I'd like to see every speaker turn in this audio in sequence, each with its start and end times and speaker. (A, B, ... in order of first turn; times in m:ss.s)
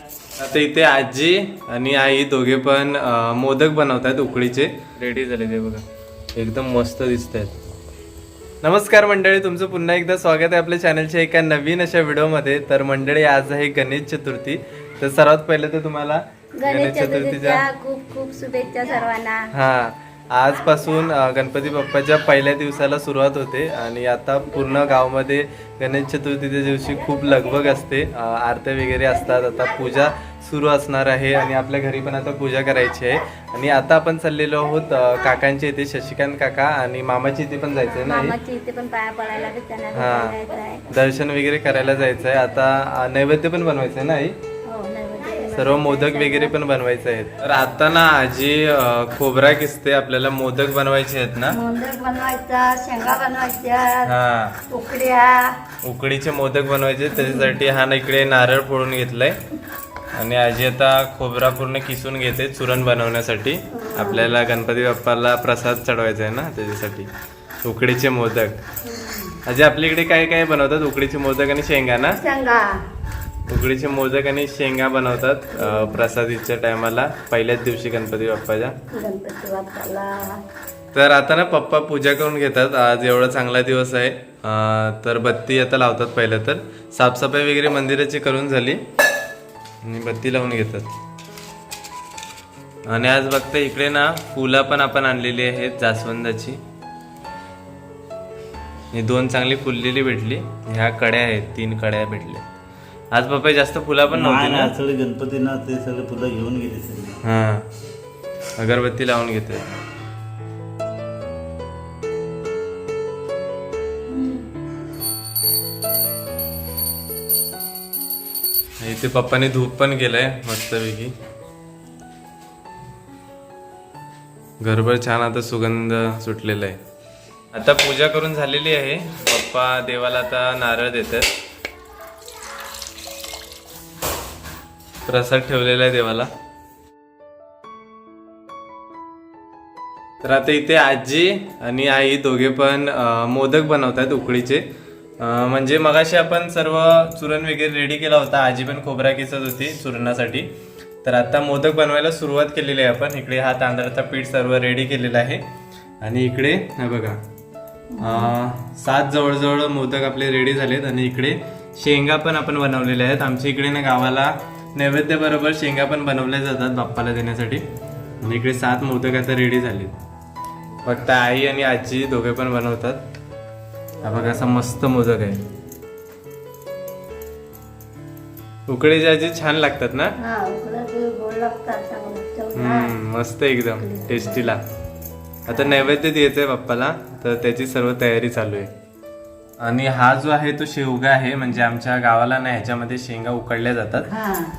0:00.4-0:05.8 A
0:06.4-0:07.6 A
0:08.6-0:17.6 A
0:16.6-0:19.5 B
0:19.5-0:38.4 A
0:37.9-0:40.9 B
0:39.9-0:40.4 A
0:40.9-0:44.3 A
0:44.6-0:46.6 B
0:45.6-0:51.6 A
0:51.5-0:54.1 B
0:54.0-0:54.6 A
0:54.7-0:55.5 B
0:55.8-0:59.4 A
1:00.1-1:07.1 A
1:03.7-1:04.3 B
1:07.6-1:08.6 A
1:08.8-1:09.4 B
1:09.4-1:12.2 A
1:12.2-1:12.8 B
1:13.5-1:18.7 A
1:15.6-1:16.0 B
1:18.9-1:20.4 B
1:20.9-1:28.8 A
1:29.8-1:30.9 A
1:32.9-1:36.6 A
1:38.9-1:42.4 A
1:43.1-1:44.7 A
1:44.1-1:47.2 C
1:47.2-1:47.7 A
1:48.6-1:49.7 A
1:54.1-1:54.4 B
1:58.8-2:01.1 A
2:04.6-2:06.8 A
2:07.5-2:11.3 A
2:15.1-2:16.3 A
2:20.2-2:24.6 A
2:25.2-2:30.5 A
2:31.0-2:35.4 A
2:36.0-2:37.2 A
2:37.9-2:38.3 B
2:38.0-2:47.6 A
2:48.2-2:50.0 A
2:50.8-2:53.0 A
2:54.0-2:55.4 A
2:58.7-3:00.1 A
3:00.2-3:02.9 B
3:02.6-3:04.6 A
3:03.8-3:04.5 B
3:05.5-3:08.7 A
3:05.5-3:05.9 B
3:09.6-3:14.1 A